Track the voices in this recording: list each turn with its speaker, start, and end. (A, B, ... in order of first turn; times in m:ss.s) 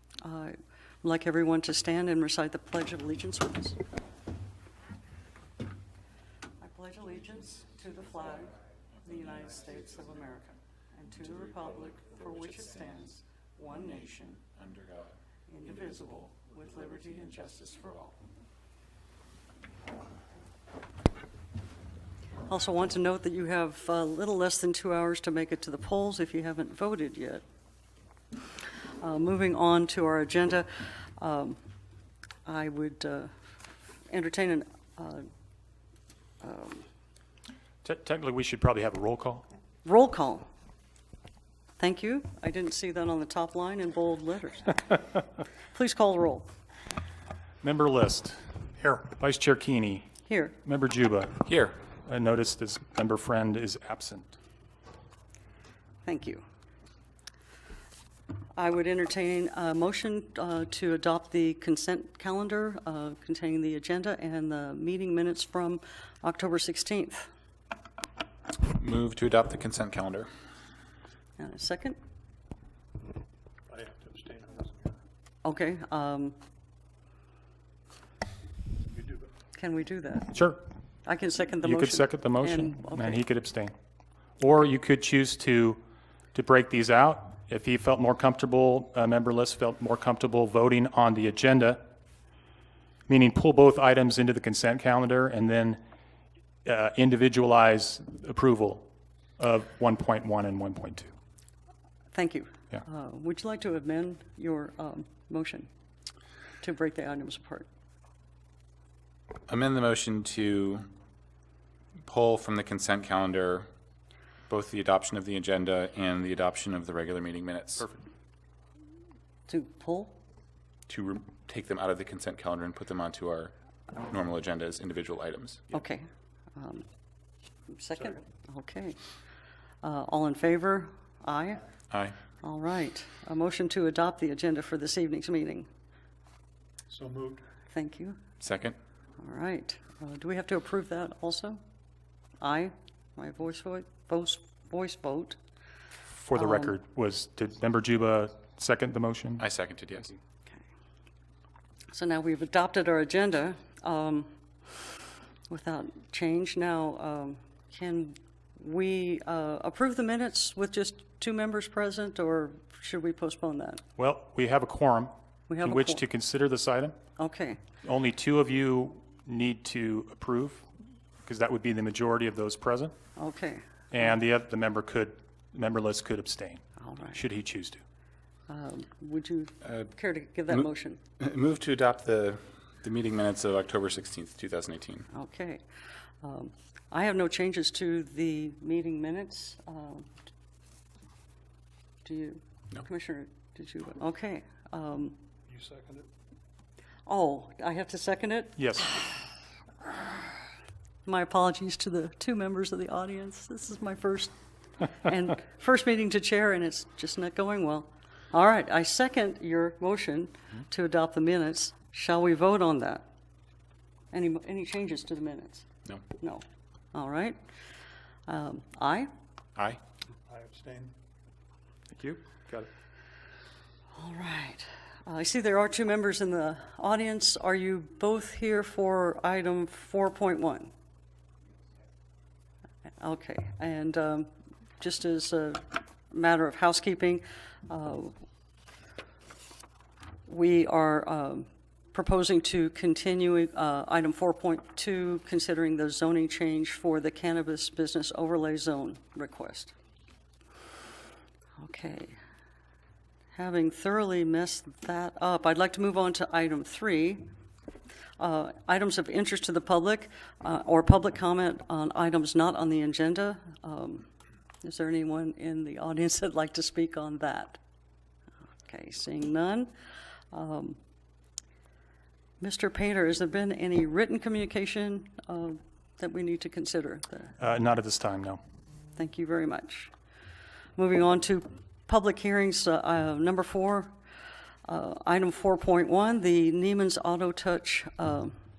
0:00.2-0:03.8 A
0:06.6-0:14.2 A
0:11.1-0:18.1 B
0:15.5-0:18.0 A
0:22.5-0:27.4 A
0:29.0-0:31.6 A
0:32.4-0:33.4 A
0:34.1-0:35.3 A
0:36.4-0:36.8 A
0:37.8-0:39.4 C
0:39.8-0:40.5 A
0:41.8-0:45.0 A
0:45.7-0:46.5 A
0:47.6-0:50.1 C
0:50.3-0:50.6 A
0:50.6-0:51.5 C
0:51.4-0:51.8 B
0:52.0-0:54.3 C
0:56.0-0:56.4 A
0:58.5-1:07.3 A
1:08.7-1:10.3 B
1:11.4-1:12.0 A
1:13.7-1:14.9 D
1:15.4-1:16.4 A
1:18.8-1:19.3 D
1:19.5-1:20.4 A
1:21.0-1:23.2 A
1:21.7-1:23.7 C
1:24.4-1:25.8 C
1:26.3-1:31.8 C
1:33.1-1:35.8 C
1:36.6-1:38.8 C
1:39.4-1:41.1 C
1:42.1-1:45.7 A
1:46.6-1:47.7 A
1:49.5-1:50.9 B
1:52.0-1:53.7 B
1:54.5-1:57.9 B
1:59.5-2:00.2 A
2:00.9-2:05.7 B
2:05.7-2:06.8 A
2:07.7-2:09.0 A
2:09.8-2:11.6 A
2:11.9-2:12.2 B
2:12.4-2:15.7 A
2:16.9-2:17.4 D
2:17.7-2:18.2 A
2:18.4-2:18.8 B
2:19.2-2:21.6 A
2:22.4-2:25.4 A
2:26.2-2:29.4 C
2:26.3-2:26.7 A
2:29.4-2:30.1 B
2:31.9-2:34.3 A
2:35.5-2:43.8 A
2:44.0-2:46.9 C
2:45.5-2:46.0 A
2:47.2-2:47.6 A
2:47.8-2:50.6 C
2:51.2-2:52.9 C
2:53.2-2:53.6 A
2:53.9-2:56.6 C
2:56.8-2:57.2 A
2:57.2-2:57.8 C
2:58.5-3:01.0 A
3:01.2-3:05.1 B
3:05.1-3:05.6 A
3:06.2-3:10.1 A
3:12.0-3:15.2 A
3:15.5-3:16.1 D
3:17.0-3:19.2 A
3:21.0-3:24.3 A
3:24.8-3:33.0 A
3:34.1-3:37.4 A
3:38.3-3:39.1 A
3:39.6-3:39.8 B
3:40.3-3:40.9 D
3:41.9-3:42.7 C
3:43.9-3:50.7 A
3:53.0-3:58.2 A
4:00.3-4:09.7 A
4:11.6-4:12.2 A
4:13.3-4:17.2 A
4:18.2-4:24.1 A
4:24.6-4:27.6 A
4:28.6-4:29.7 A
4:30.3-4:30.8 A
4:32.4-4:37.3 A
4:37.4-4:38.4 C
4:39.0-4:39.9 A
4:40.8-4:43.9 A
4:44.7-4:48.3 A